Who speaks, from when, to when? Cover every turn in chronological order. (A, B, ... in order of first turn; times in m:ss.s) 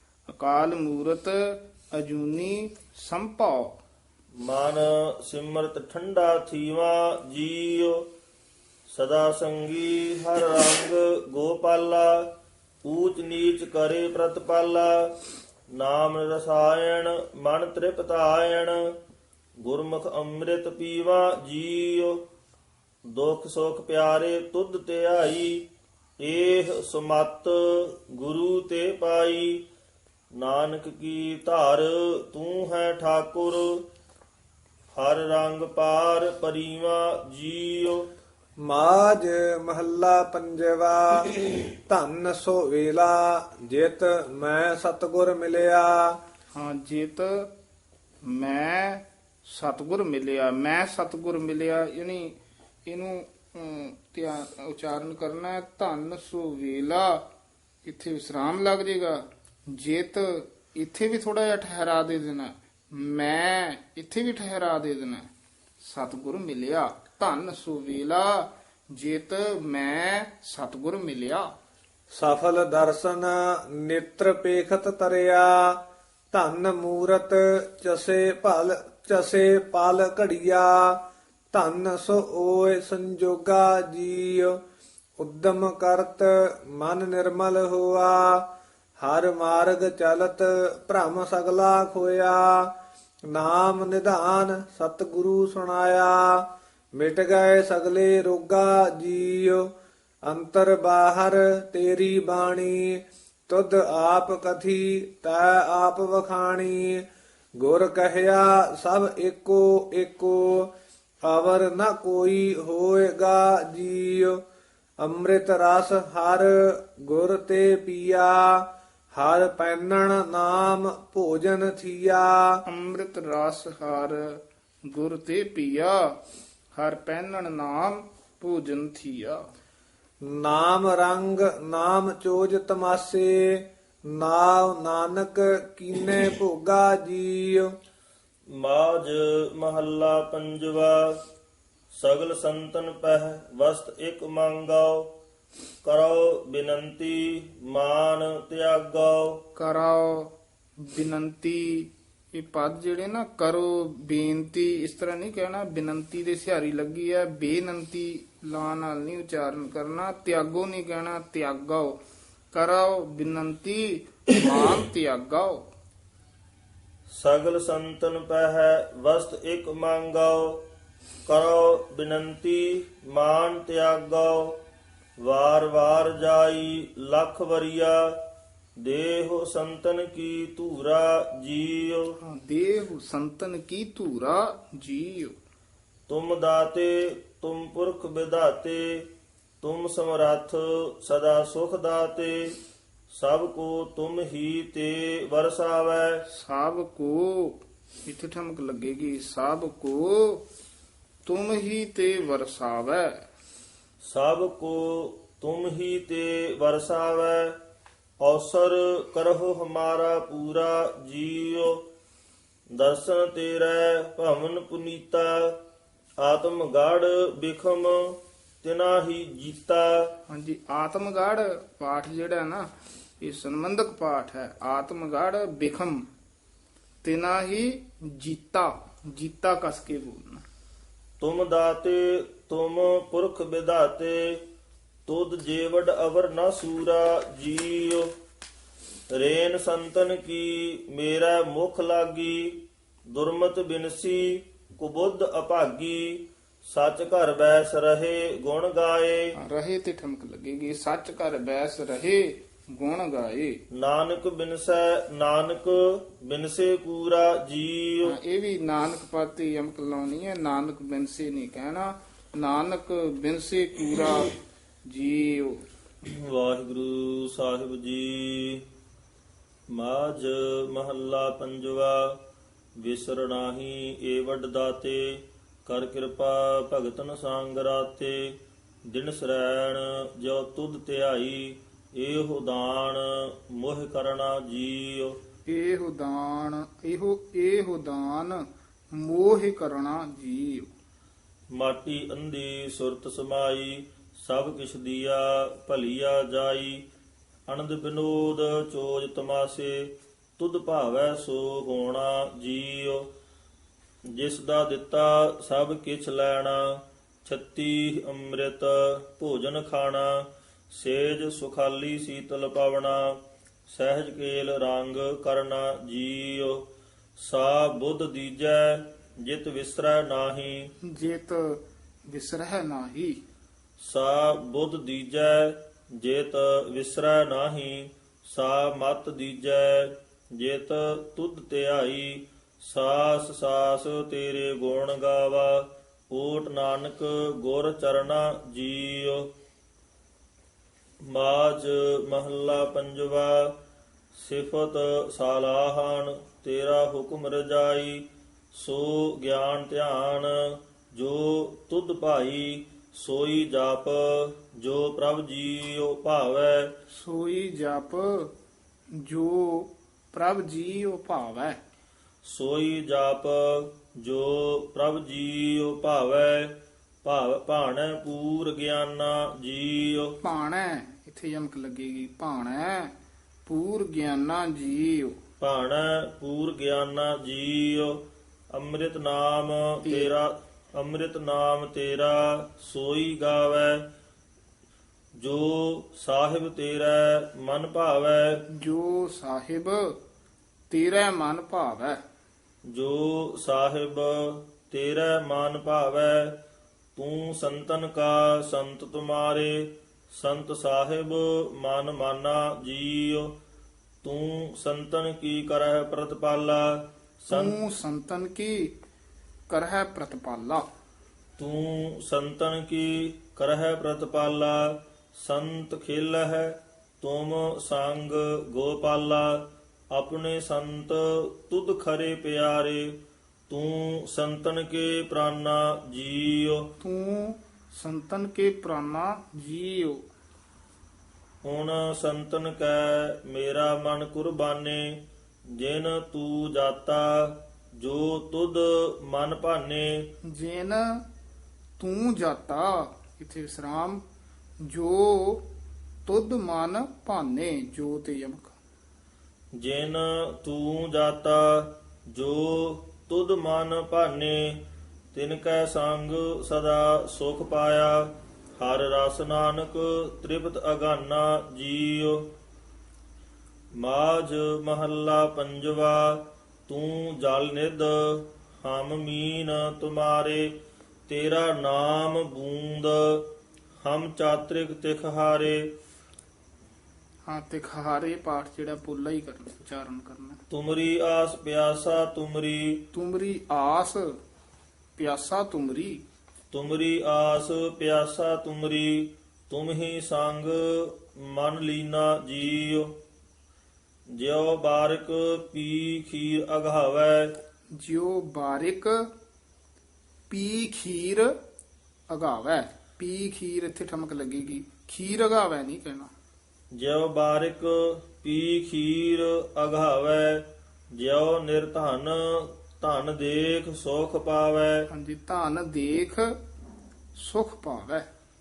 0:00.3-0:03.8 A
0:04.4-0:08.1 B
0:08.9-0:12.3 B
0:12.8-0:15.1 B
0:15.7-0:18.9 B
0:19.6-0:22.2 B
0:23.1-0:25.7 B
0:26.2-0:29.7 B
0:30.4-0:33.9 B
0:34.9-0:38.1 B
0:38.6-0:46.2 C
0:46.6-0:47.5 A
0:48.2-0:52.4 A
0:52.9-0:57.2 A
0:57.8-1:05.3 A
1:05.8-1:11.5 A
1:12.1-1:15.8 C
1:16.3-1:21.0 C
1:21.5-1:24.6 C
1:25.2-1:28.5 C
1:29.0-1:32.7 C
1:33.3-1:36.5 C
1:37.0-1:39.7 C
1:40.3-1:47.0 C
1:47.6-1:50.7 C
1:51.3-1:54.4 C
1:55.0-2:02.6 C
2:02.7-2:06.2 A
2:06.7-2:09.4 A
2:10.2-2:17.7 C
2:18.5-2:21.2 B
2:21.9-2:25.1 B
2:25.8-2:29.4 B
2:29.6-2:42.0 A
2:42.5-2:45.6 A
2:47.2-2:50.6 B
2:51.3-2:54.6 B
2:55.2-2:58.2 B
2:58.8-3:02.1 B
3:02.2-3:05.4 A
3:06.1-3:09.1 B
3:09.6-3:12.6 B
3:13.1-3:16.2 B
3:16.3-3:20.4 A
3:21.2-3:23.1 A
3:24.0-3:27.6 B
3:28.2-3:31.9 B
3:32.7-3:35.6 B
3:36.2-3:40.1 B
3:40.3-3:46.1 A
3:47.0-3:50.4 A
3:51.2-3:54.4 B
3:55.1-3:58.1 B
3:59.1-4:09.3 B
4:09.4-4:13.6 A
4:13.7-4:18.2 B
4:18.0-4:24.3 A
4:24.9-4:25.6 A
4:26.0-4:28.6 B
4:29.7-4:32.2 B
4:32.8-4:45.2 B
4:45.5-4:48.4 A
4:48.9-4:50.7 A
4:51.5-4:56.8 B
4:57.5-5:03.1 B
5:04.2-5:16.7 B
5:17.2-5:20.7 B
5:20.9-5:23.2 A
5:23.8-5:39.3 B
5:41.0-5:43.6 B
5:44.2-5:56.7 B
5:56.9-5:58.3 A
5:59.0-6:01.6 A
6:02.2-6:10.2 B
6:10.2-6:12.9 A
6:13.5-6:15.2 A
6:15.4-6:18.0 B
6:18.5-6:23.9 B
6:19.8-6:20.1 A
6:25.2-6:28.4 B
6:28.5-6:29.9 A
6:30.7-6:32.0 A
6:32.7-6:36.4 B
6:37.0-6:43.4 B
6:44.0-6:47.6 B
6:47.3-6:48.7 A
6:49.5-6:50.7 A
6:51.4-7:06.7 B
7:06.8-7:10.0 A
7:11.4-7:20.1 B
7:20.3-7:21.0 A
7:21.8-7:24.0 A
7:24.6-7:25.4 A
7:26.0-7:28.6 A
7:29.6-7:42.3 B
7:43.8-7:50.6 B
7:51.1-7:53.2 B
7:53.8-7:55.7 B
7:57.2-8:00.4 A
8:00.5-8:02.9 B
8:02.9-8:04.1 A
8:05.0-8:06.0 A
8:06.5-8:13.0 B
8:14.2-8:17.4 B
8:17.8-8:19.0 A
8:20.3-8:21.3 A
8:22.1-8:26.1 A
8:26.7-8:34.9 B
8:34.9-8:36.3 A
8:37.2-8:38.1 A